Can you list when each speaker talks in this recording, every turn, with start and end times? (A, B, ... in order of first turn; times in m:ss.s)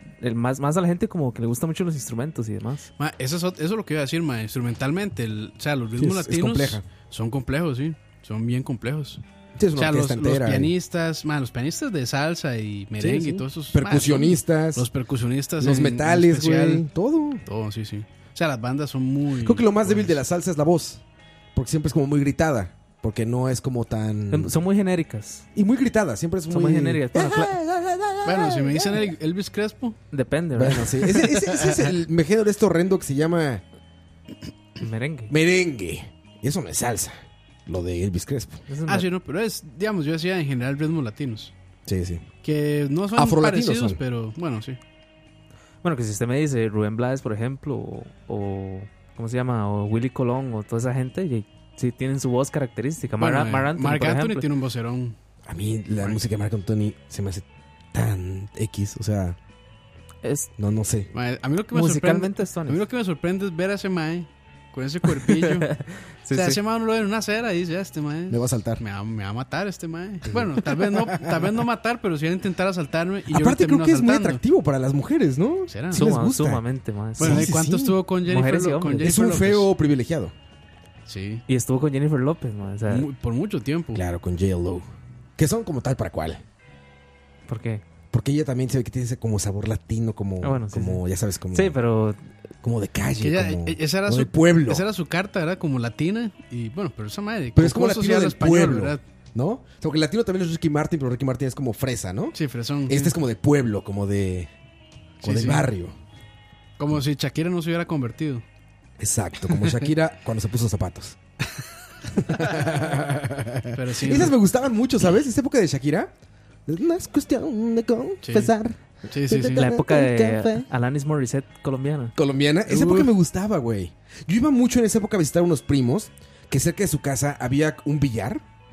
0:00.2-0:02.9 A
0:03.0-0:09.2 B
0:06.0-0:06.8 C
0:09.6-0:10.7 C
0:09.8-0:16.8 B
0:13.0-0:14.9 C
0:15.6-0:17.4 C
0:17.4-0:20.2 B
0:19.4-0:21.0 C
0:21.5-0:24.6 C
0:24.3-0:25.4 A
0:25.5-0:29.1 C
0:26.5-0:27.6 A
0:28.2-0:30.0 B
0:30.1-0:31.0 A
0:30.6-0:33.6 C
0:31.2-0:31.8 B
0:34.8-0:35.3 A
0:35.3-0:38.6 C
0:38.7-0:39.1 A
0:38.9-0:41.5 B
0:41.8-0:42.3 C
0:42.4-0:44.8 B
0:43.1-0:44.0 C
0:45.8-0:54.5 A
0:53.2-0:55.2 B
0:55.4-0:59.4 C
1:00.2-1:00.5 A
1:00.6-1:01.1 C
1:01.1-1:05.7 B
1:01.7-1:02.8 A
1:05.2-1:06.6 A
1:06.3-1:14.4 B
1:08.3-1:08.8 C
1:10.3-1:11.5 C
1:13.3-1:16.6 C
1:15.7-1:16.1 B
1:15.9-1:17.5 A
1:17.2-1:18.0 C
1:17.2-1:19.7 B
1:18.2-1:19.1 A
1:19.0-1:20.3 C
1:21.1-1:21.4 B
1:21.5-1:23.1 A
1:22.9-1:24.0 B
1:23.9-1:26.4 C
1:27.5-1:27.8 A
1:28.1-1:31.8 C
1:30.4-1:31.0 A
1:31.5-1:32.2 A
1:32.6-1:34.8 C
1:33.2-1:39.0 B
1:37.5-1:42.4 C
1:42.3-1:43.1 B
1:42.9-1:44.5 C
1:45.2-1:45.6 B
1:45.2-1:45.9 C
1:46.8-1:48.4 B
1:49.0-1:51.2 C
1:49.5-1:49.9 B
1:52.1-1:56.1 C
1:53.7-1:54.4 B
1:56.6-2:00.6 C
1:58.2-1:58.5 B
1:59.1-1:59.7 B
1:59.5-2:02.1 A
2:02.2-2:08.4 C
2:02.7-2:03.1 B